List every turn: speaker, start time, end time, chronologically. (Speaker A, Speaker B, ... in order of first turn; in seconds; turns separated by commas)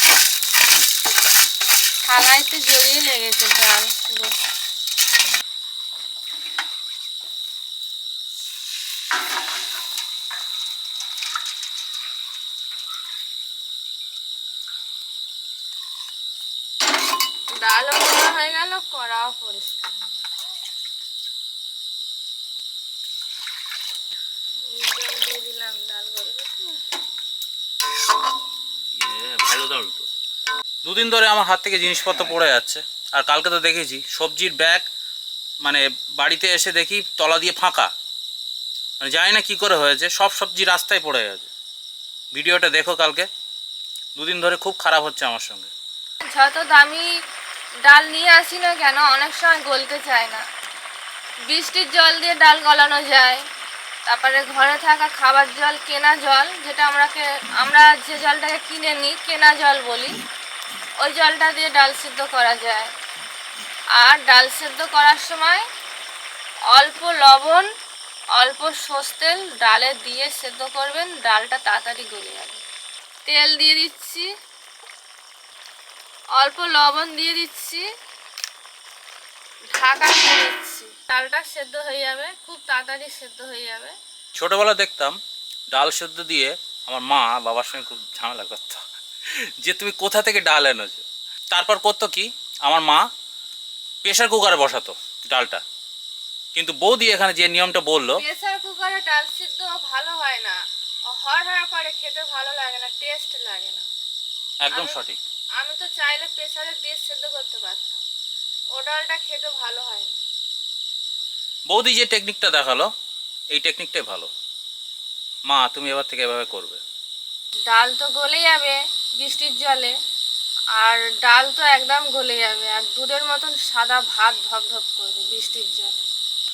Speaker A: 2.1-4.3, Speaker A: 17.6-20.0, Speaker A: 24.7-26.8, Speaker B: 28.9-30.1, Speaker B: 30.8-34.9, Speaker B: 35.6-37.9, Speaker B: 39.0-41.5, Speaker B: 42.3-43.3, Speaker B: 44.1-45.7, Speaker A: 46.2-47.1, Speaker A: 47.8-50.4, Speaker A: 51.5-53.4, Speaker A: 54.0-60.2, Speaker A: 61.0-62.9, Speaker A: 63.9-65.7, Speaker A: 66.7-67.7, Speaker A: 68.3-72.6, Speaker A: 73.2-74.3, Speaker A: 76.3-77.9, Speaker A: 79.7-84.0, Speaker B: 84.3-85.2, Speaker B: 85.7-93.0, Speaker B: 94.0-95.6, Speaker B: 96.5-98.2, Speaker A: 98.2-103.8, Speaker B: 104.6-105.2, Speaker A: 105.6-108.0, Speaker A: 108.7-110.2, Speaker B: 111.7-112.9, Speaker B: 113.5-114.3, Speaker B: 115.5-116.8, Speaker A: 117.7-120.0, Speaker A: 120.7-126.0